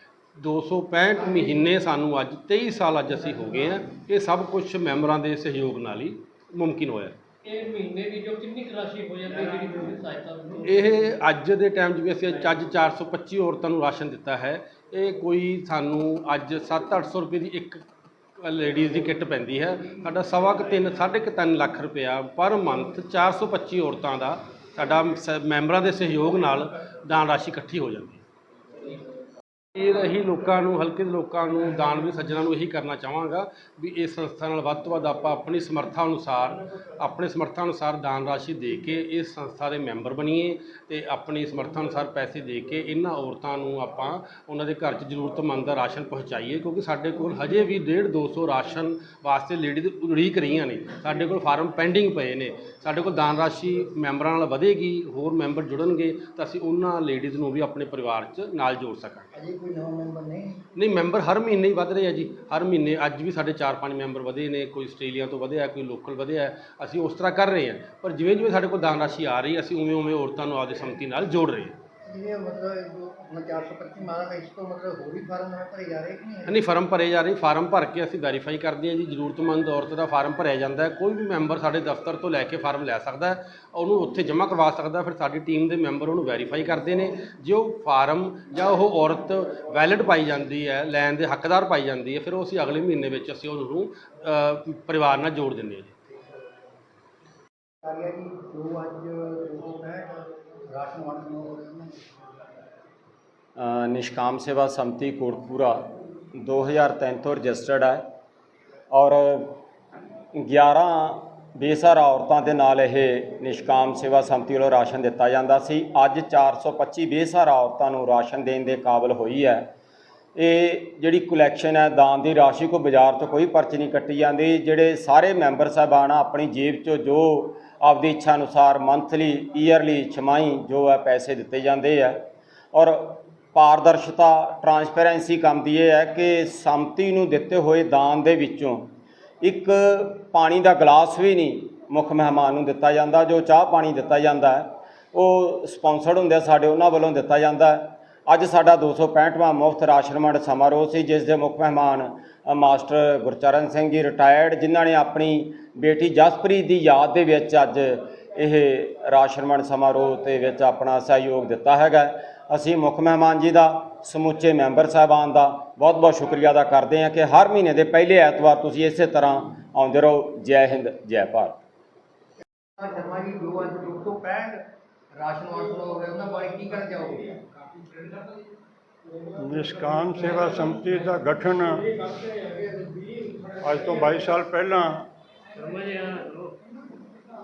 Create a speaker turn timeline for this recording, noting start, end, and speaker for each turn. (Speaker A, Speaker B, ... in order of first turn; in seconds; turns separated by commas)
Speaker A: 0.4-7.2, Speaker B: 7.4-10.9, Speaker A: 10.6-17.8, Speaker A: 18.4-28.2, Speaker A: 29.8-59.3, Speaker C: 59.3-60.6, Speaker A: 60.8-71.8, Speaker C: 72.0-76.6, Speaker A: 76.5-95.9, Speaker C: 97.8-102.0, Speaker D: 103.5-105.8, Speaker D: 106.3-108.0, Speaker D: 108.9-109.6, Speaker D: 110.4-119.7, Speaker D: 120.3-138.9, Speaker D: 139.4-171.6, Speaker C: 172.8-174.6, Speaker C: 175.1-177.4, Speaker E: 179.4-181.8, Speaker E: 183.6-185.1, Speaker B: 185.6-186.5